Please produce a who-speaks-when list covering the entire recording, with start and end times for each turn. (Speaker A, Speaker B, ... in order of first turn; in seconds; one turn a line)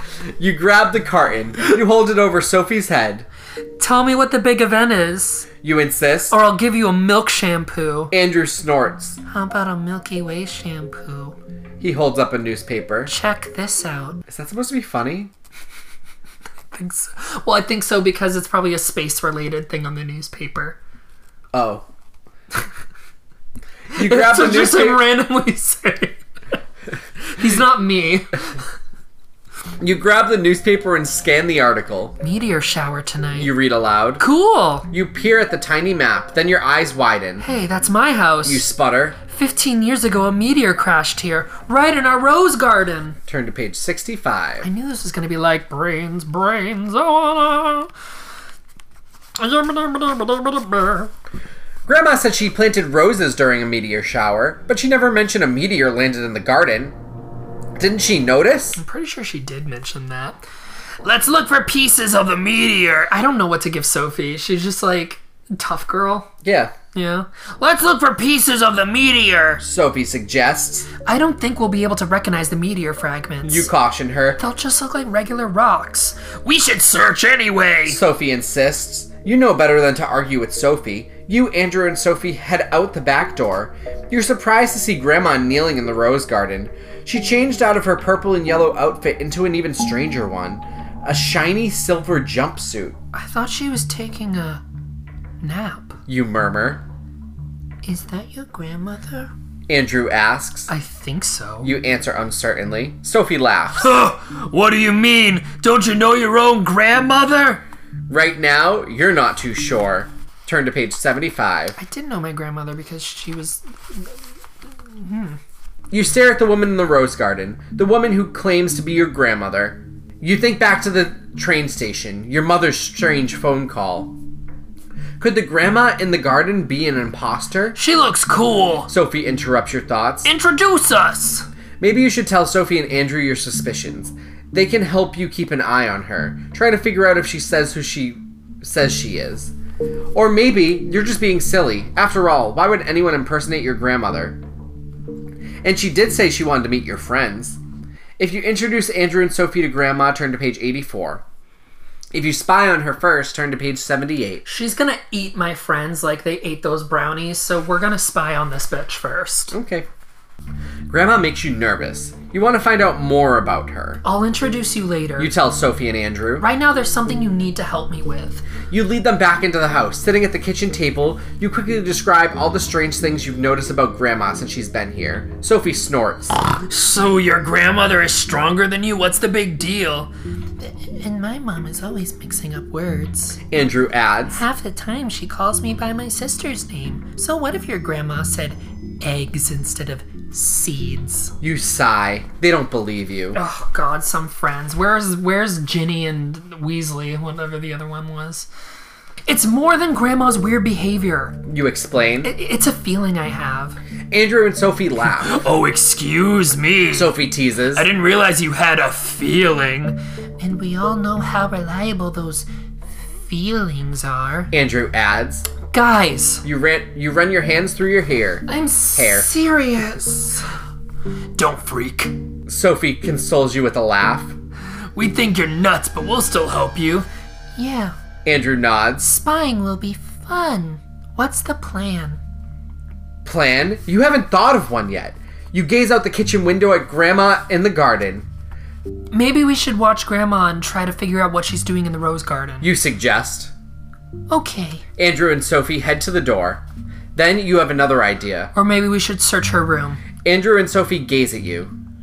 Speaker A: 0.4-3.3
Speaker B: 3.8-5.5
Speaker A: 5.6-6.4
Speaker B: 6.3-8.1
Speaker A: 8.1-9.2
Speaker B: 9.2-11.3
Speaker A: 11.8-13.1
Speaker B: 13.1-14.2
Speaker A: 14.3-15.3
Speaker B: 16.7-20.8
Speaker A: 21.5-21.9
Speaker A: 23.9-25.1
Speaker B: 23.9-26.2
Speaker B: 27.3-28.4
Speaker A: 29.8-32.2
Speaker B: 32.2-33.5
Speaker A: 33.4-34.2
Speaker B: 34.2-34.9
Speaker A: 34.9-37.5
Speaker B: 37.4-38.7
Speaker A: 38.4-39.2
Speaker B: 39.3-43.2
Speaker A: 43.3-44.7
Speaker B: 44.6-47.9
Speaker B: 49.4-51.1
Speaker A: 51.9-57.0
Speaker A: 57.8-58.8
Speaker B: 58.8-60.4
Speaker B: 61.0-66.3
Speaker A: 66.4-66.7
Speaker B: 66.9-69.6
Speaker A: 69.6-70.9
Speaker B: 71.0-73.7
Speaker A: 73.4-74.4
Speaker B: 74.4-78.0
Speaker A: 77.9-93.0
Speaker B: 93.1-94.6
Speaker B: 95.4-96.0
Speaker A: 96.1-96.8
Speaker B: 97.8-99.3
Speaker A: 99.7-100.7
Speaker B: 100.7-101.7
Speaker A: 101.6-103.9
Speaker B: 103.8-107.6
Speaker A: 108.1-111.8
Speaker B: 111.8-114.2
Speaker B: 114.9-115.4
Speaker A: 115.9-124.2
Speaker A: 125.2-127.8
Speaker B: 127.8-128.9
Speaker A: 128.9-130.3
Speaker B: 130.2-131.4
Speaker A: 131.8-139.5
Speaker A: 140.1-144.4
Speaker A: 145.6-147.6
Speaker A: 148.2-151.2
Speaker A: 152.1-154.4
Speaker B: 154.4-159.6
Speaker A: 159.5-159.9
Speaker A: 160.9-164.0
Speaker B: 164.0-165.3
Speaker A: 165.2-166.4
Speaker B: 166.4-168.4
Speaker A: 168.7-176.4
Speaker B: 176.5-183.4
Speaker A: 183.5-184.4
Speaker B: 184.3-191.3
Speaker A: 191.4-193.4
Speaker B: 193.3-198.5
Speaker B: 199.3-201.4
Speaker A: 201.4-202.3
Speaker B: 202.2-203.8
Speaker A: 204.1-205.4
Speaker B: 205.2-207.2
Speaker A: 206.9-207.9
Speaker B: 207.7-212.5
Speaker B: 213.0-214.5
Speaker A: 214.5-215.5
Speaker B: 215.7-216.4
Speaker A: 216.4-219.3
Speaker B: 218.5-220.5
Speaker B: 221.3-222.1
Speaker A: 222.5-224.4
Speaker B: 224.9-227.9
Speaker A: 228.2-229.1
Speaker B: 229.0-232.2
Speaker A: 233.2-238.3
Speaker B: 239.1-242.7
Speaker A: 242.6-243.5
Speaker B: 244.3-244.8
Speaker A: 245.0-248.5
Speaker B: 248.5-250.0
Speaker A: 250.2-251.7